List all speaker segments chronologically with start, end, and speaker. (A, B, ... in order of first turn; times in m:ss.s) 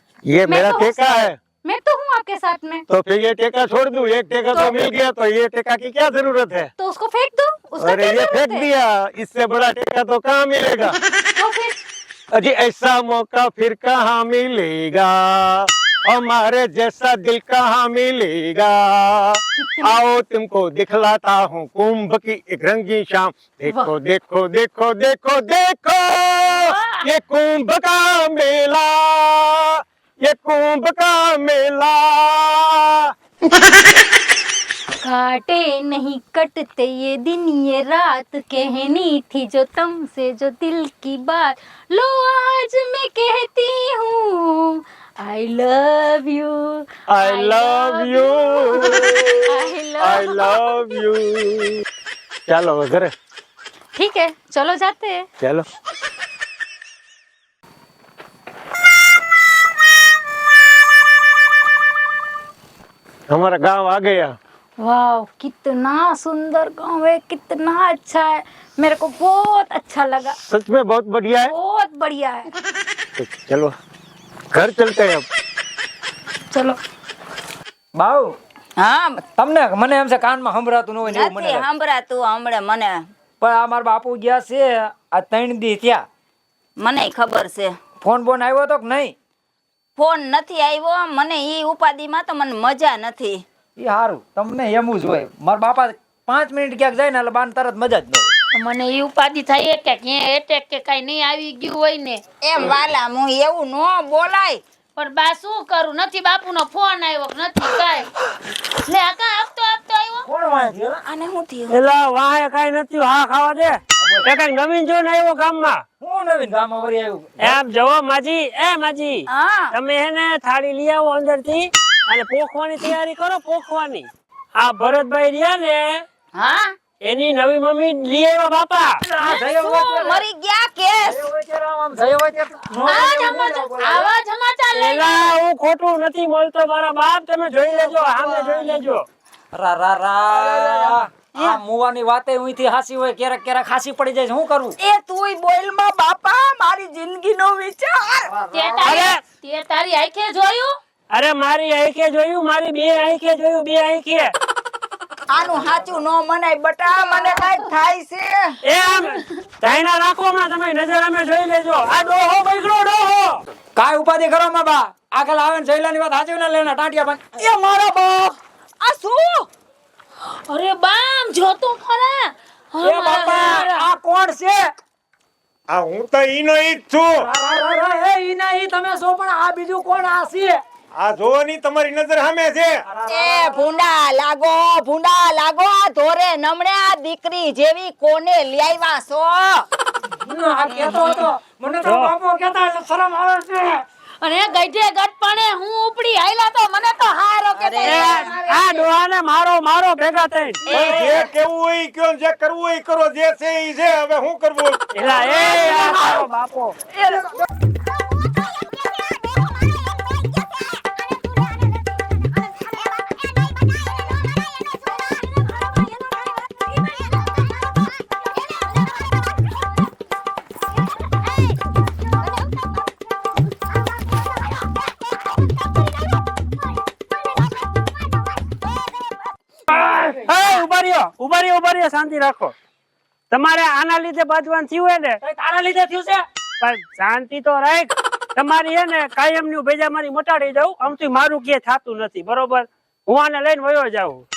0:00.3-0:01.4 A
0:00.5-0:02.8 B
0:02.9-0:06.7 A
0:06.8-0:08.7 B
0:07.8-0:11.0 A
0:11.4-0:11.8 B
0:12.3-0:33.1 A
0:19.6-0:20.0 B
0:26.5-0:27.1 B
0:35.0-0:51.0 B
0:47.1-0:51.8 A
0:52.5-0:53.1 A
0:54.0-0:55.3 B
0:55.4-0:55.6 A
1:03.3-1:04.4 A
1:04.8-1:10.4 B
1:10.4-1:11.5 A
1:11.5-1:12.5 B
1:13.2-1:13.8 A
1:14.5-1:15.3 A
1:16.5-1:16.8 B
1:18.0-1:18.4 C
1:18.8-1:19.2 D
1:19.2-1:21.7 C
1:21.0-1:23.0 D
1:23.4-1:26.0 C
1:26.8-1:27.8 D
1:28.0-1:29.2 C
1:30.0-1:33.4 D
1:33.8-1:38.3 C
1:38.5-1:42.2 E
1:42.4-1:44.6 D
1:45.0-1:48.1 E
1:48.8-1:50.3 E
1:50.2-1:51.0 C
1:51.0-1:51.8 D
1:51.7-1:55.8 F
1:54.0-1:54.3 C
1:56.0-1:57.6 C
1:57.4-2:04.1 F
1:59.3-1:59.7 D
2:04.6-2:06.0 F
2:06.4-2:06.7 D
2:07.0-2:09.0 F
2:09.0-2:10.2 C
2:09.2-2:11.2 D
2:11.0-2:14.1 C
2:12.9-2:15.3 E
2:14.8-2:19.0 F
2:19.5-2:24.8 C
2:20.4-2:20.8 D
2:24.8-2:28.3 D
2:28.3-2:29.0 C
2:28.5-2:30.7 E
2:28.8-2:29.2 F
2:31.1-2:34.3 F
2:35.3-2:38.6 D
2:35.4-2:36.0 C
2:38.6-2:43.4 F
2:43.8-2:48.4 C
2:48.8-2:49.5 D
2:50.3-2:53.9 E
2:52.8-2:54.6 C
2:55.7-2:57.3 A
2:57.2-3:00.6 C
3:01.0-3:02.8 A
3:02.9-3:03.7 C
3:03.1-3:09.6 D
3:10.2-3:13.8 C
3:11.8-3:12.1 F
3:14.2-3:17.9 E
3:17.5-3:18.6 D
3:17.8-3:21.0 F
3:20.7-3:25.1 A
3:20.7-3:21.2 D
3:24.9-3:26.3 F
3:25.3-3:26.7 C
3:25.7-3:26.2 D
3:49.7-3:52.5 F
3:53.3-3:55.2 F
3:55.2-3:56.2 C
3:56.6-4:04.2 F